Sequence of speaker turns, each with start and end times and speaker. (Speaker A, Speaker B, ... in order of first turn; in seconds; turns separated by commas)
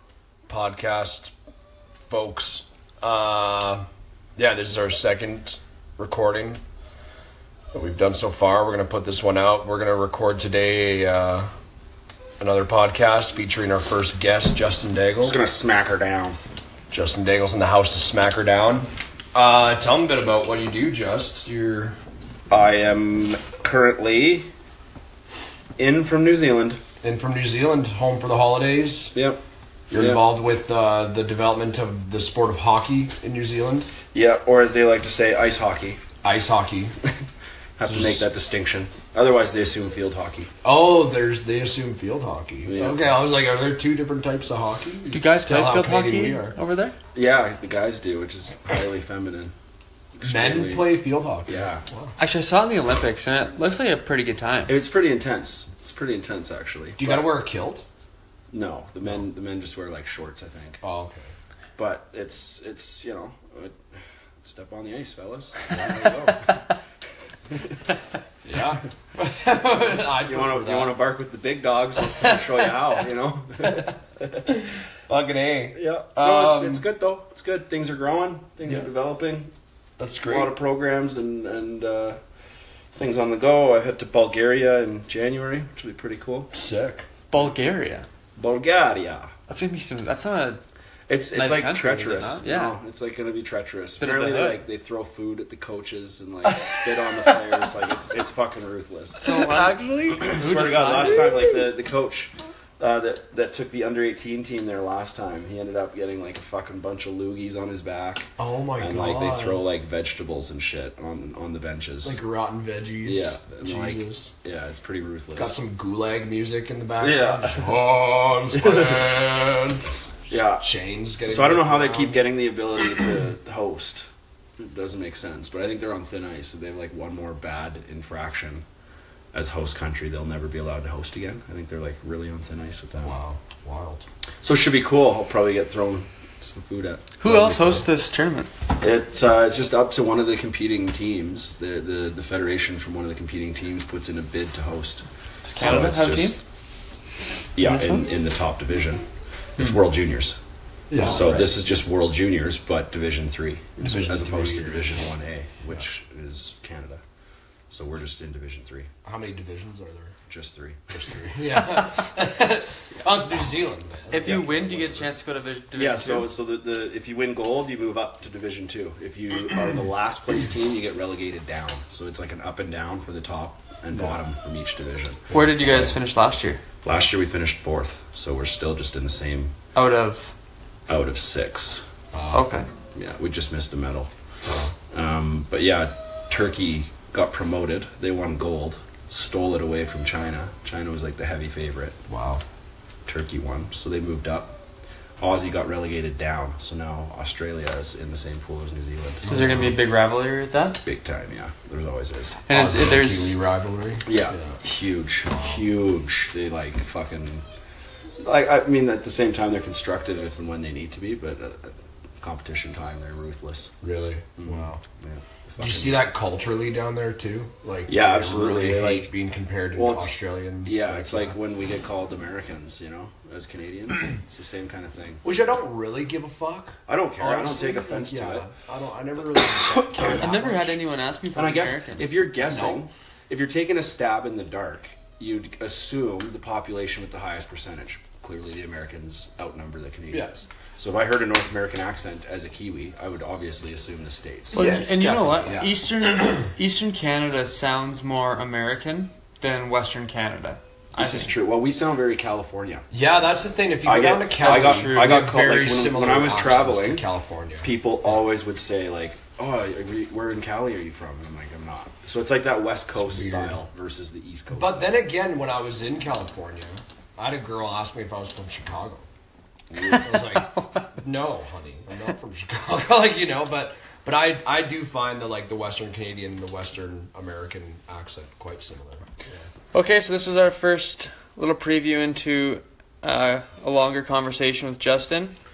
Speaker A: 0.5-1.3, Speaker A: 2.1-3.8, Speaker A: 4.4-6.6, Speaker A: 7.7-11.5, Speaker A: 12.4-15.4, Speaker B: 15.2-16.4, Speaker A: 16.9-22.0, Speaker B: 22.5-24.5, Speaker B: 25.8-26.8, Speaker A: 27.0-29.1, Speaker B: 29.1-29.4, Speaker A: 29.9-33.9, Speaker B: 29.9-30.2, Speaker B: 34.1-36.0, Speaker A: 36.2-36.9, Speaker B: 37.8-40.5, Speaker A: 37.8-38.2, Speaker A: 40.6-46.5, Speaker B: 42.6-43.1, Speaker C: 45.1-46.9, Speaker B: 47.1-49.5, Speaker B: 50.1-51.8, Speaker A: 50.2-52.1, Speaker C: 52.2-54.7, Speaker B: 54.7-57.3, Speaker A: 57.0-57.8, Speaker B: 58.5-60.8, Speaker A: 60.8-61.3, Speaker B: 61.8-63.8, Speaker B: 64.4-66.6, Speaker A: 68.4-71.0, Speaker B: 70.2-74.0, Speaker A: 75.1-76.8, Speaker B: 75.7-79.5, Speaker A: 80.0-80.5, Speaker B: 80.2-82.2, Speaker B: 82.9-86.5, Speaker A: 86.5-87.0, Speaker C: 87.3-88.1, Speaker B: 88.3-89.3, Speaker C: 89.5-90.6, Speaker B: 91.1-99.2, Speaker C: 91.3-92.8, Speaker C: 94.0-94.6, Speaker C: 99.2-101.5, Speaker A: 99.2-100.3, Speaker B: 100.1-112.2, Speaker A: 101.0-101.5, Speaker A: 108.4-109.6, Speaker A: 112.0-114.3, Speaker B: 113.0-115.6, Speaker A: 115.3-119.8, Speaker B: 117.0-117.7, Speaker B: 118.5-119.1, Speaker B: 120.3-120.6, Speaker A: 120.6-122.2, Speaker B: 121.2-124.0, Speaker B: 124.6-128.6, Speaker B: 129.3-133.2, Speaker A: 133.0-134.0, Speaker B: 134.4-137.8, Speaker C: 137.2-138.5, Speaker A: 137.4-137.7, Speaker B: 138.8-145.1, Speaker C: 145.4-146.4, Speaker B: 145.6-146.3, Speaker B: 147.5-149.0, Speaker C: 147.6-148.0, Speaker B: 149.6-150.4, Speaker A: 150.9-151.5, Speaker B: 151.0-157.0, Speaker A: 153.8-154.9, Speaker B: 157.7-158.9, Speaker A: 159.0-160.1, Speaker B: 160.3-161.2, Speaker A: 160.9-164.7, Speaker C: 164.1-166.3, Speaker B: 164.2-165.0, Speaker B: 165.7-176.0, Speaker C: 175.3-176.6, Speaker B: 176.8-179.5, Speaker C: 179.7-180.3, Speaker B: 180.9-181.8, Speaker A: 182.1-182.5, Speaker C: 182.3-182.7, Speaker B: 182.9-184.1, Speaker A: 184.4-184.7, Speaker B: 184.9-192.0, Speaker A: 192.1-192.4, Speaker B: 193.1-194.5, Speaker B: 195.2-199.6, Speaker A: 199.2-199.8, Speaker C: 199.2-200.8, Speaker B: 200.8-202.4, Speaker C: 202.5-203.4, Speaker A: 202.5-204.6, Speaker B: 204.0-207.4, Speaker A: 205.3-205.6, Speaker B: 208.2-213.7, Speaker A: 213.8-214.8, Speaker B: 214.4-216.0, Speaker A: 215.6-221.4, Speaker B: 217.9-219.1, Speaker B: 219.7-225.2, Speaker A: 225.2-230.8, Speaker B: 226.8-228.5, Speaker C: 230.2-232.1, Speaker B: 231.3-244.6, Speaker A: 232.5-232.8, Speaker A: 240.1-240.3, Speaker A: 244.5-246.4, Speaker C: 244.5-251.3, Speaker B: 251.0-252.8, Speaker A: 252.9-257.7, Speaker B: 253.8-257.0, Speaker C: 254.4-255.0, Speaker B: 257.6-265.0, Speaker A: 263.0-263.6, Speaker A: 264.5-269.0, Speaker A: 269.8-279.0, Speaker C: 270.2-270.8, Speaker C: 279.7-285.4